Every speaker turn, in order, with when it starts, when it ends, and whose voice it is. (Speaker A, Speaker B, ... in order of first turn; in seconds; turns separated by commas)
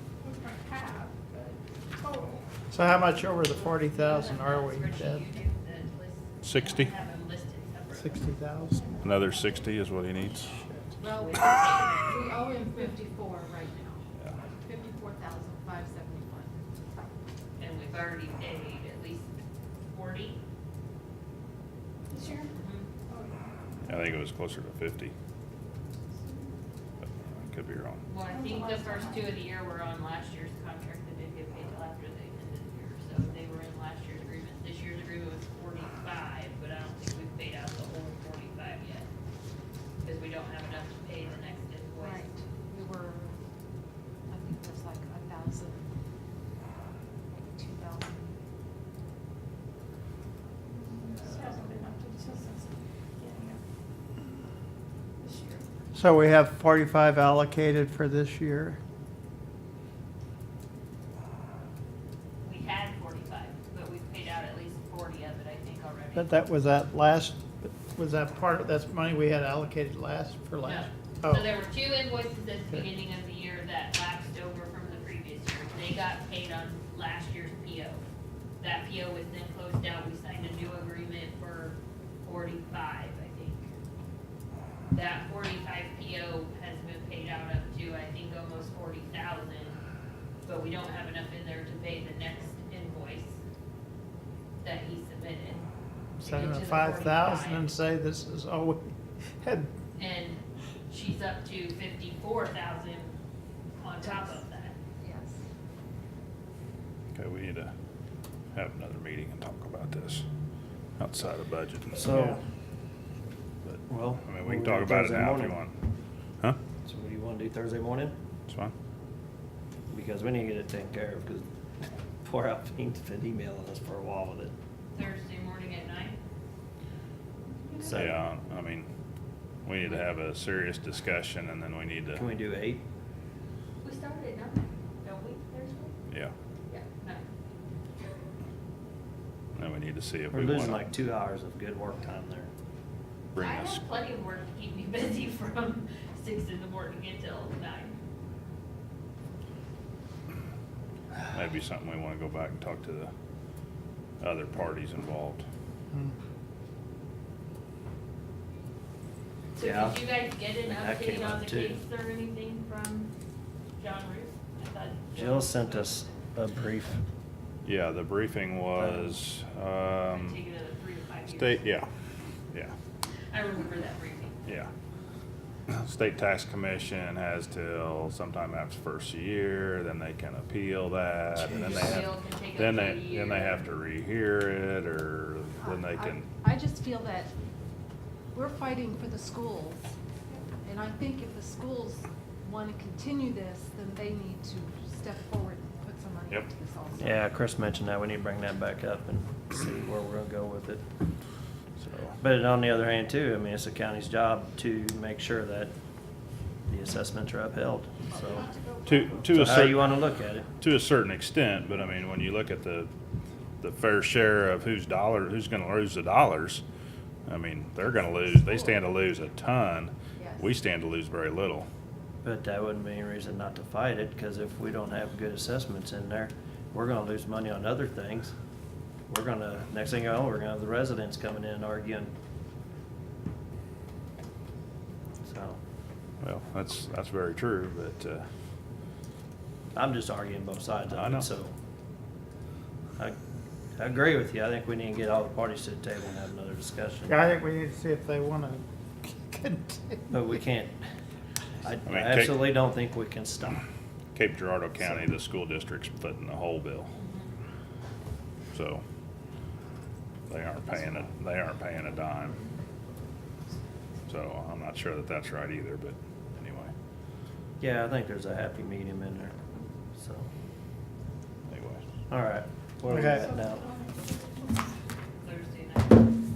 Speaker A: 0.2-2.5, Speaker B: 2.7-5.2, Speaker C: 3.6-8.2, Speaker D: 6.4-6.9, Speaker B: 7.9-8.8, Speaker D: 9.0-10.7, Speaker E: 11.0-16.5, Speaker C: 11.0-12.1, Speaker C: 17.6-19.3, Speaker C: 19.9-20.4, Speaker A: 22.1-22.5, Speaker C: 22.5-22.9, Speaker A: 23.1-23.9, Speaker D: 23.8-25.1, Speaker A: 26.1-26.5, Speaker D: 27.0-28.0, Speaker C: 28.1-39.1, Speaker A: 28.2-29.2, Speaker C: 40.0-42.2, Speaker E: 42.0-43.4, Speaker E: 44.3-45.9, Speaker E: 47.3-48.4, Speaker A: 50.7-53.6, Speaker A: 55.2-55.6, Speaker B: 55.9-58.8, Speaker C: 62.4-66.3, Speaker B: 66.1-71.5, Speaker C: 70.6-78.0, Speaker C: 78.6-83.7, Speaker C: 84.9-89.8, Speaker C: 90.4-93.4, Speaker C: 94.6-95.7, Speaker B: 96.2-99.7, Speaker C: 96.2-97.7, Speaker C: 100.0-103.1, Speaker C: 103.8-104.7, Speaker E: 104.0-104.4, Speaker E: 105.0-105.4, Speaker D: 107.1-107.7, Speaker D: 108.5-110.2, Speaker D: 111.0-112.0, Speaker F: 111.9-112.4, Speaker B: 112.1-112.4, Speaker F: 113.8-115.6, Speaker D: 114.2-115.7, Speaker F: 116.8-118.1, Speaker D: 118.5-118.7, Speaker F: 119.9-121.5, Speaker F: 122.2-124.5, Speaker C: 124.9-126.2, Speaker F: 127.8-128.2, Speaker D: 127.9-128.9, Speaker D: 129.6-132.3, Speaker F: 132.1-132.8, Speaker C: 133.8-135.9, Speaker C: 136.7-137.3, Speaker D: 139.5-140.8, Speaker F: 140.3-142.5, Speaker D: 143.3-143.8, Speaker C: 143.4-148.0, Speaker D: 151.3-153.1, Speaker D: 154.2-155.4, Speaker C: 159.5-163.1, Speaker F: 159.6-160.1, Speaker F: 160.6-161.8, Speaker C: 163.8-166.2, Speaker F: 165.1-167.0, Speaker D: 167.6-170.4, Speaker F: 168.8-169.2, Speaker C: 170.1-171.7, Speaker D: 171.3-171.9, Speaker C: 173.3-174.5, Speaker D: 175.7-186.3, Speaker C: 181.5-183.6, Speaker E: 185.6-187.3, Speaker E: 188.3-189.9, Speaker E: 190.6-197.2, Speaker F: 197.0-200.8, Speaker D: 201.8-202.1, Speaker F: 202.2-205.7, Speaker F: 206.7-208.4, Speaker E: 208.1-208.8, Speaker D: 208.8-212.9, Speaker F: 209.3-210.5, Speaker D: 213.6-216.6, Speaker D: 217.2-221.7, Speaker E: 218.4-218.8, Speaker E: 220.2-220.5, Speaker F: 222.2-228.3, Speaker F: 229.1-232.1, Speaker F: 235.2-235.6, Speaker D: 236.2-238.2, Speaker F: 239.7-241.5, Speaker D: 240.9-241.3, Speaker F: 243.8-247.2, Speaker B: 247.1-250.1, Speaker F: 250.1-250.8, Speaker F: 251.6-253.6, Speaker D: 251.8-252.5, Speaker D: 254.1-256.9, Speaker F: 254.8-255.1, Speaker C: 257.0-257.3, Speaker D: 258.5-258.8, Speaker D: 260.3-262.4, Speaker D: 264.1-266.7, Speaker F: 267.6-269.3, Speaker F: 269.9-270.3, Speaker D: 271.5-271.8, Speaker F: 272.1-273.7, Speaker B: 272.9-273.3, Speaker A: 273.0-274.6, Speaker C: 275.2-276.1